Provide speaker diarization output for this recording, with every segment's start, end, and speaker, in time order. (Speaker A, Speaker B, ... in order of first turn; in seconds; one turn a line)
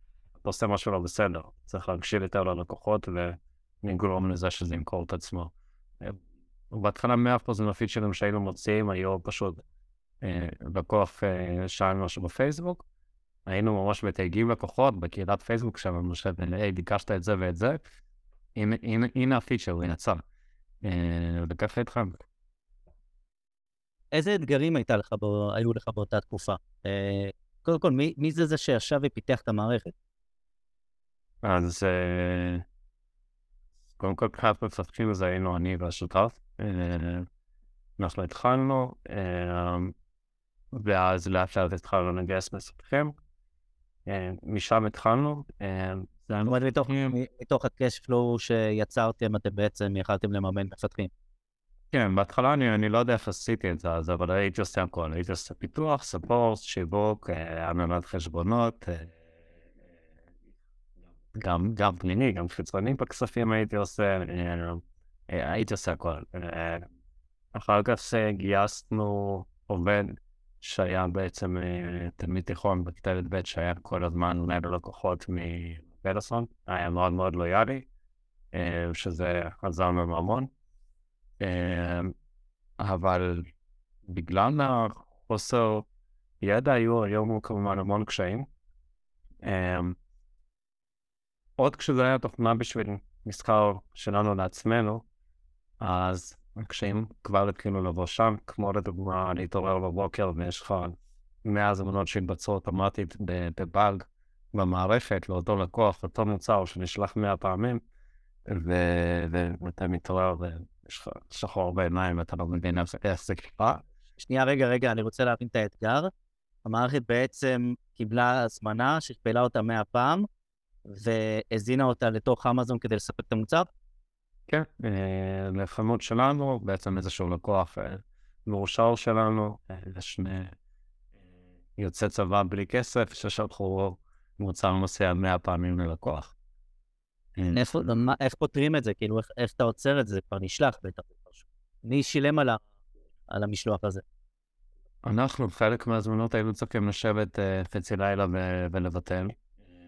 Speaker A: 0.4-6.2
Speaker A: 6.7-9.6
Speaker A: 10.2-12.8
Speaker A: 13.4-17.8
Speaker A: 18.5-20.2
Speaker A: 20.8-22.2
Speaker B: 24.1-29.9
Speaker A: 31.4-32.6
Speaker A: 34.0-37.3
Speaker A: 38.0-39.9
Speaker A: 40.7-43.1
Speaker A: 44.0-47.1
Speaker B: 46.5-51.1
Speaker A: 51.9-59.1
Speaker A: 61.3-66.8
Speaker A: 67.5-77.9
Speaker A: 78.5-80.5
Speaker A: 81.4-82.1
Speaker A: 82.8-83.5
Speaker A: 84.0-85.8
Speaker A: 86.4-88.5
Speaker A: 89.4-90.0
Speaker A: 91.6-95.0
Speaker A: 95.8-107.8
Speaker A: 108.5-113.8
Speaker B: 114.2-116.1
Speaker B: 116.6-120.2
Speaker B: 120.8-123.7
Speaker A: 124.5-130.5
Speaker A: 131.8-136.3
Speaker A: 137.3-137.6
Speaker B: 137.5-142.6
Speaker B: 143.3-144.0
Speaker A: 145.0-149.3